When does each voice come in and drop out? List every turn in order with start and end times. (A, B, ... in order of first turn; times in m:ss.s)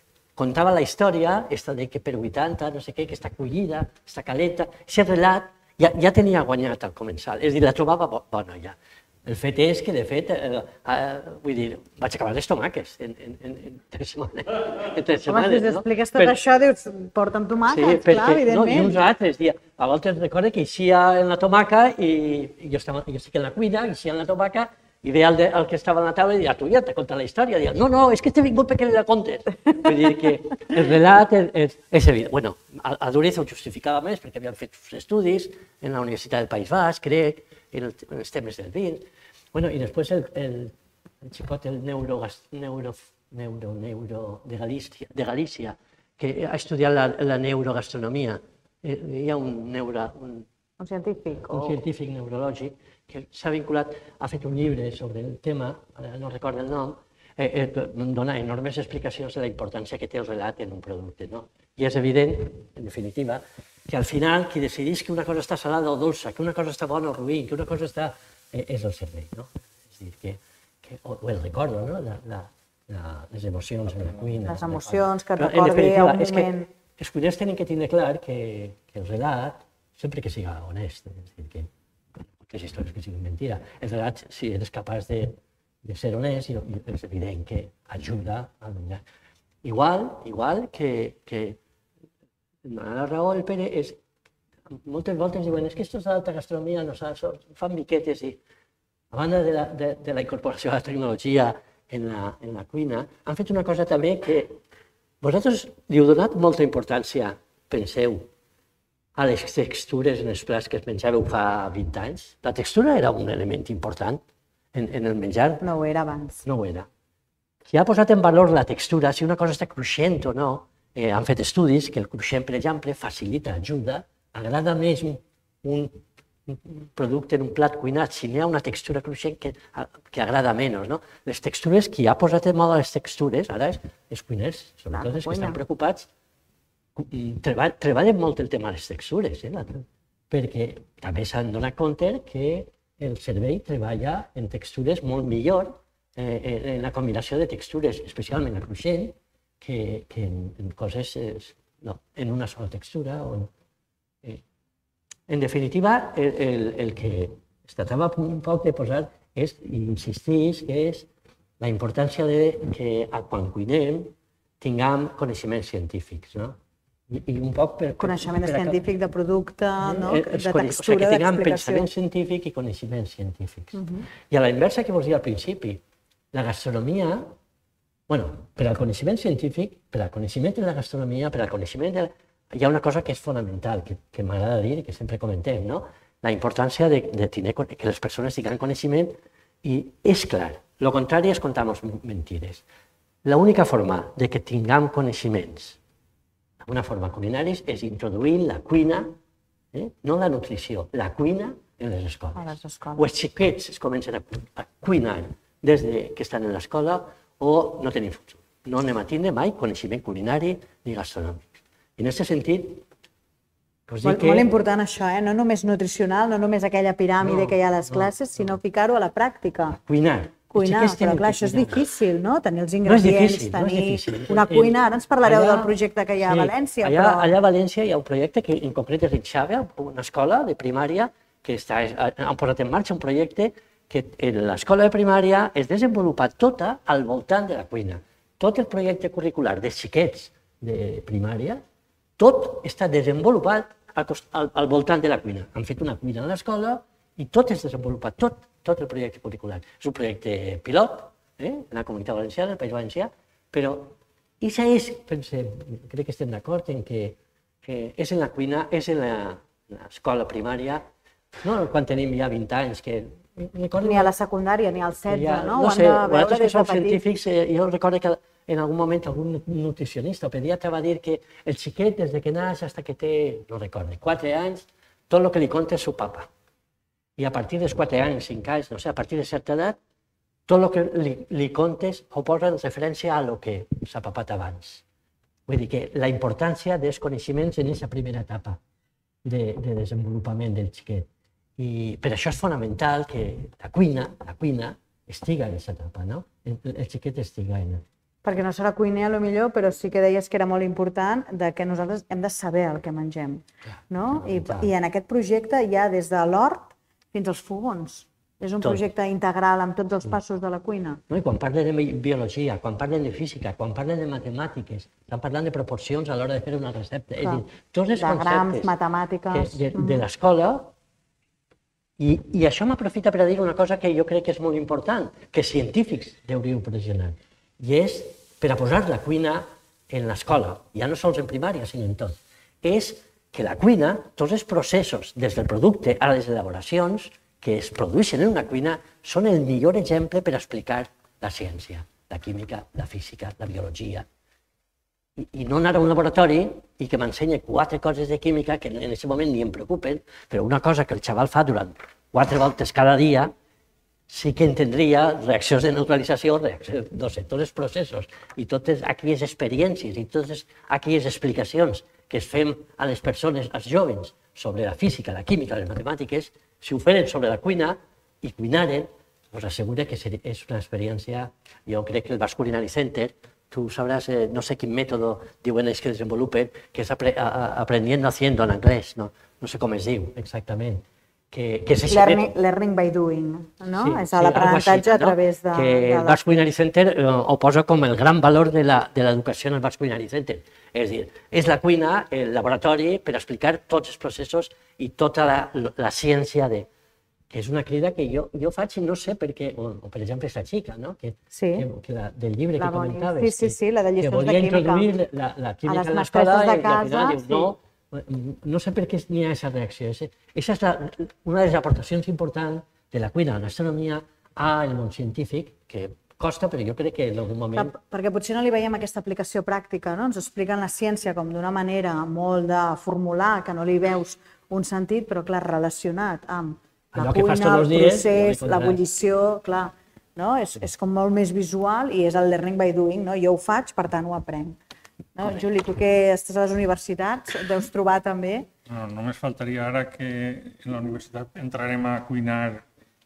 0:00.4-0:16.4 A
0:15.3-0:19.0 B
0:17.7-0:50.5 A
0:50.8-0:51.8 B
0:51.4-1:29.0 A
1:14.5-1:16.7 B
1:29.6-1:31.6 A
1:32.6-1:34.0 A
1:34.7-1:38.4 A
1:39.1-1:44.6 A
1:45.2-1:48.3 A
1:49.2-1:54.2 A
1:54.7-1:55.6 A
1:55.6-1:56.4 B
1:56.4-1:56.9 A
1:57.7-2:16.1 A
2:14.9-2:15.6 B
2:17.0-2:33.5 A
2:35.3-2:41.1 A
2:41.6-2:46.6 A
2:47.1-2:48.8 A
2:48.0-2:51.9 B
2:49.8-2:55.8 A
2:53.8-2:54.1 B
2:56.3-2:57.3 A
2:58.1-3:12.6 A
3:13.2-3:15.8 A
3:16.6-3:19.1 A
3:19.7-3:31.4 A
3:22.4-3:23.1 B
3:32.0-3:32.8 A
3:33.9-3:34.5 A
3:34.0-3:39.8 B
3:37.2-3:38.6 A
3:39.8-3:41.8 A
3:40.5-3:47.3 B
3:42.8-4:01.6 A
4:02.2-4:20.9 A
4:21.4-4:24.1 A
4:23.8-4:27.0 B
4:25.1-4:36.3 A
4:37.2-4:39.8 A
4:40.5-4:44.8 A
4:45.5-4:48.6 A
4:49.2-4:51.1 A
4:51.6-4:57.8 A
4:58.2-5:11.0 B
5:03.7-5:04.7 A
5:11.1-5:18.7 A
5:18.0-5:20.0 B
5:19.3-5:20.7 A
5:22.0-5:44.1 A
5:45.2-5:53.3 A
5:54.1-6:22.3 A
6:21.9-6:26.4 B
6:23.7-6:36.7 A
6:37.3-6:57.7 A
6:41.3-6:41.7 B
6:42.6-6:44.9 B
6:45.6-6:47.5 B
6:57.6-7:14.6 B
7:06.9-7:08.8 A
7:15.2-7:18.5 B
7:18.7-7:22.6 C